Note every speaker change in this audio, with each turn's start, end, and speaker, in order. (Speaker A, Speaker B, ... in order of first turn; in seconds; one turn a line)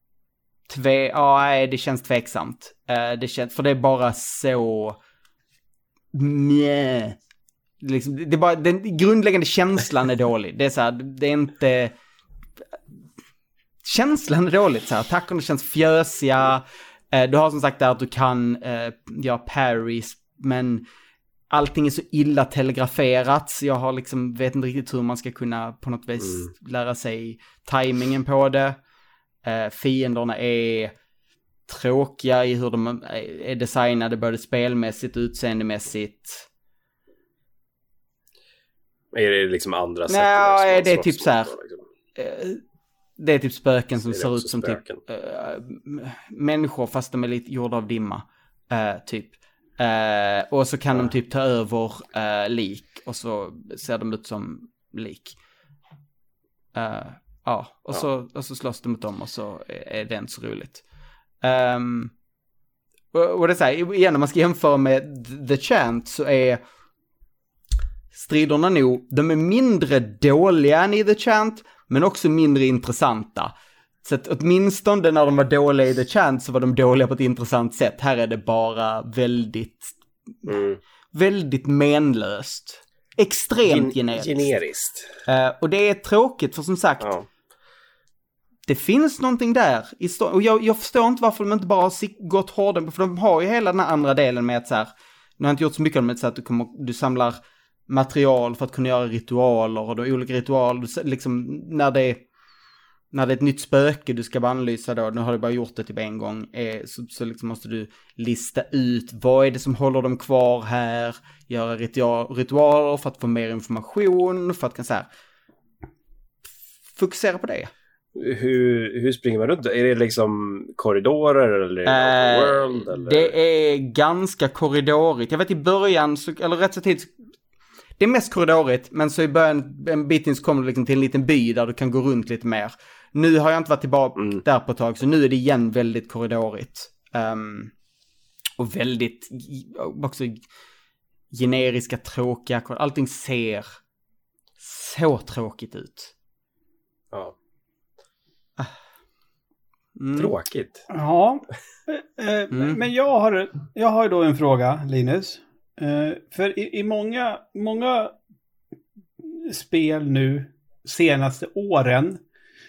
Speaker A: 0.7-5.0
Speaker A: 6.1-7.2
Speaker A: 7.8-11.9
Speaker A: 13.8-20.8
Speaker A: 21.5-28.8
Speaker B: 26.2-26.5
Speaker A: 29.4-30.9
Speaker A: 31.7-36.5
Speaker B: 39.1-41.8
Speaker A: 40.1-41.5
Speaker A: 42.1-42.6
Speaker A: 43.2-55.4
Speaker B: 44.1-45.0
Speaker A: 56.7-60.8
Speaker A: 61.4-62.1
Speaker A: 63.1-66.6
Speaker A: 68.1-73.5
Speaker A: 74.0-80.0
Speaker B: 80.5-80.8
Speaker A: 81.1-84.5
Speaker B: 83.7-85.1
Speaker A: 85.2-87.1
Speaker B: 87.0-87.2
Speaker A: 88.7-102.2
Speaker A: 103.1-115.1
Speaker A: 116.9-117.7
Speaker B: 118.1-123.3
Speaker A: 121.8-127.1
Speaker A: 128.0-137.7
Speaker B: 134.2-134.4
Speaker A: 138.6-140.4
Speaker A: 141.3-143.8
Speaker A: 144.6-146.1
Speaker A: 150.0-150.3
Speaker B: 150.2-150.8
Speaker C: 150.9-158.2
Speaker A: 152.5-152.8
Speaker C: 159.2-162.2